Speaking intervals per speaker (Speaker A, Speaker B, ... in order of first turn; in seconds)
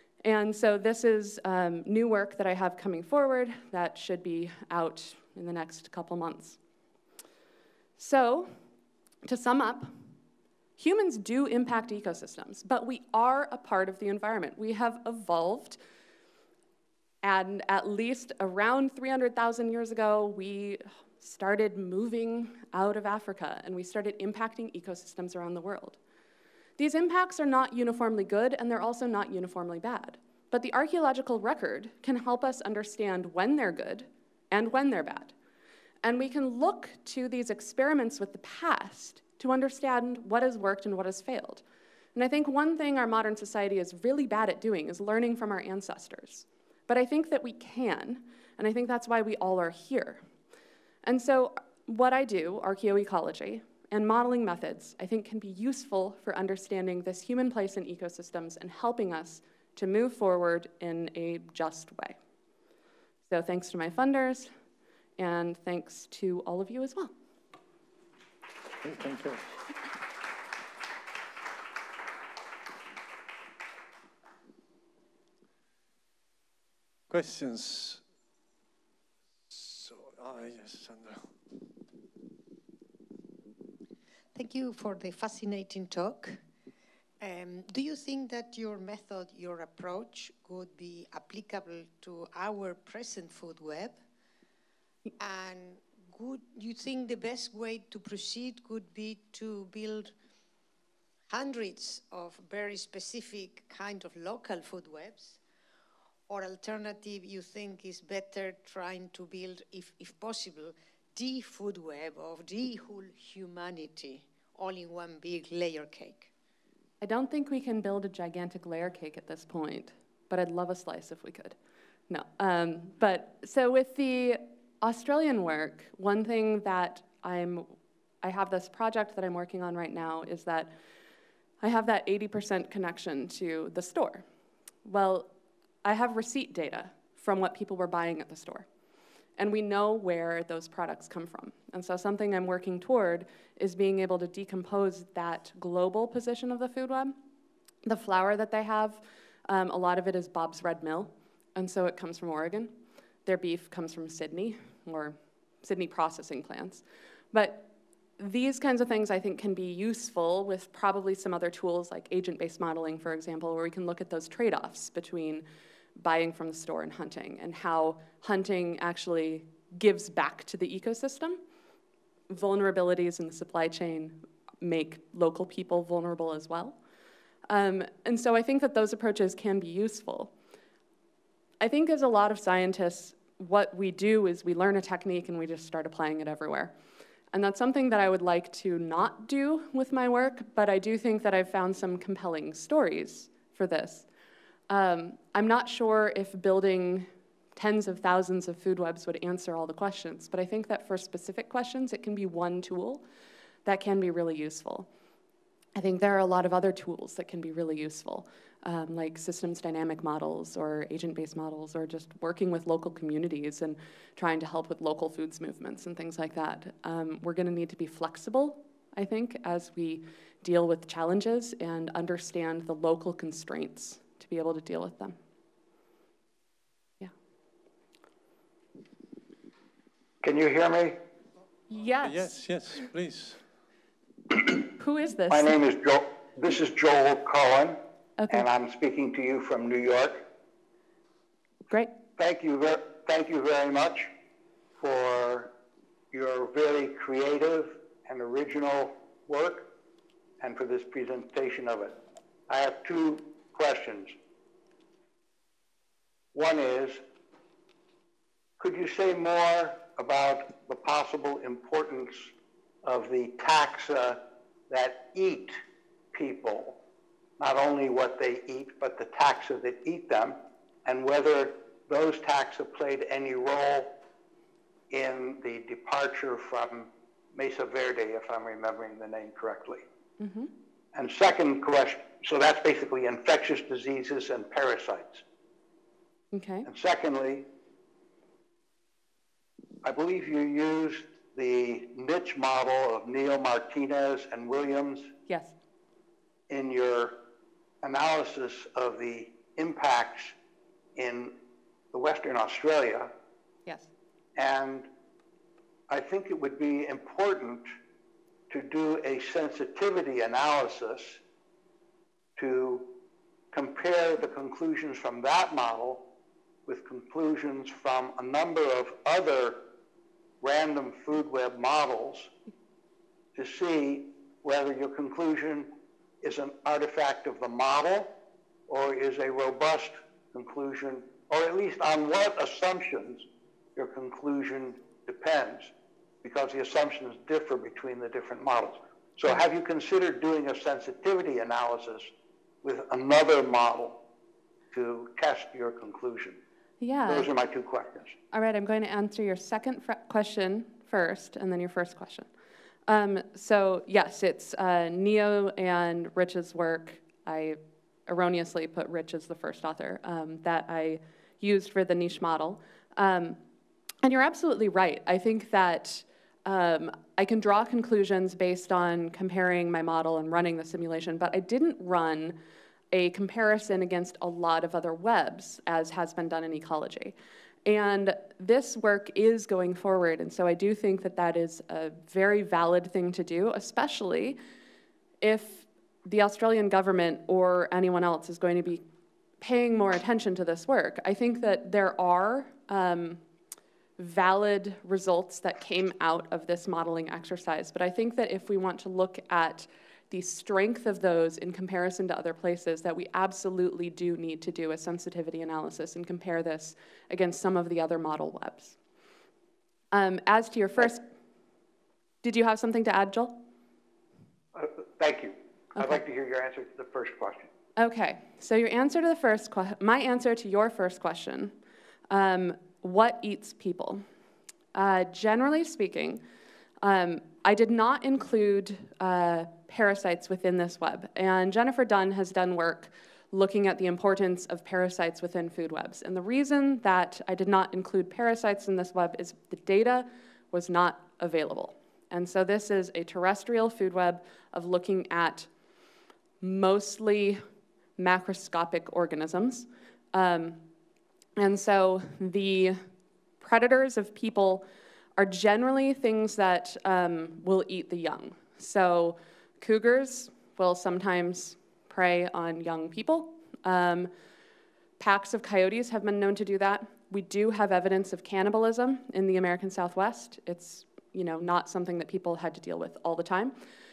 Speaker A: 0.2-6.6, 8.0-8.6, 9.2-9.9, 10.8-15.8, 17.2-26.0, 26.8-35.3, 36.0-41.6, 42.1-50.2, 51.0-62.2, 63.3-64.5, 65.2-67.1, 117.0-121.6, 122.1-130.7, 131.6-134.2, 134.8-135.3, 135.8-138.7, 139.4-147.2, 147.8-152.7, 153.2-165.4, 166.0-171.4, 172.3-176.8, 177.5-180.3, 181.6-186.7, 187.3-194.1, 194.7-203.0, 203.7-204.9, 205.8-225.2, 231.7-232.4, 234.8-235.6, 238.2-238.4, 280.2-280.5, 286.3-286.7, 295.3-295.5, 346.8-347.3, 348.3-352.3, 352.9-363.4, 364.0-372.4, 372.9-384.4, 385.2-388.8, 389.4-393.2, 394.0-408.8, 409.9-411.0, 412.2-413.4, 417.8-421.5, 422.1-424.0, 424.7-426.2, 426.8-445.5, 446.4-447.4, 448.0-450.6, 451.4-452.8, 453.4-464.1, 465.0-473.6
Speaker B: 68.8-69.8, 77.1-78.0, 79.5-81.3, 232.0-233.4
Speaker C: 84.3-86.4, 87.2-94.0, 95.2-100.2, 101.3-105.4, 106.3-116.3
Speaker D: 230.2-231.0, 235.3-237.8, 238.3-240.2, 242.2-244.1, 244.8-245.5, 246.1-249.7, 250.4-252.0, 252.5-254.1, 256.3-257.0, 258.6-262.3, 262.8-265.6, 266.1-266.8, 267.4-273.9, 274.9-279.9, 280.9-285.2, 286.7-287.5, 289.8-295.1, 296.5-297.2, 297.8-300.4, 301.0-301.3, 301.9-303.1, 304.4-304.9, 305.9-307.7, 308.5-311.2, 312.4-312.9, 313.5-316.0, 316.7-319.6, 320.4-322.3, 323.4-325.7, 326.2-328.1, 328.7-333.2, 333.8-335.7, 336.2-342.1, 342.6-344.0, 344.7-346.4, 347.1-348.1, 414.6-417.5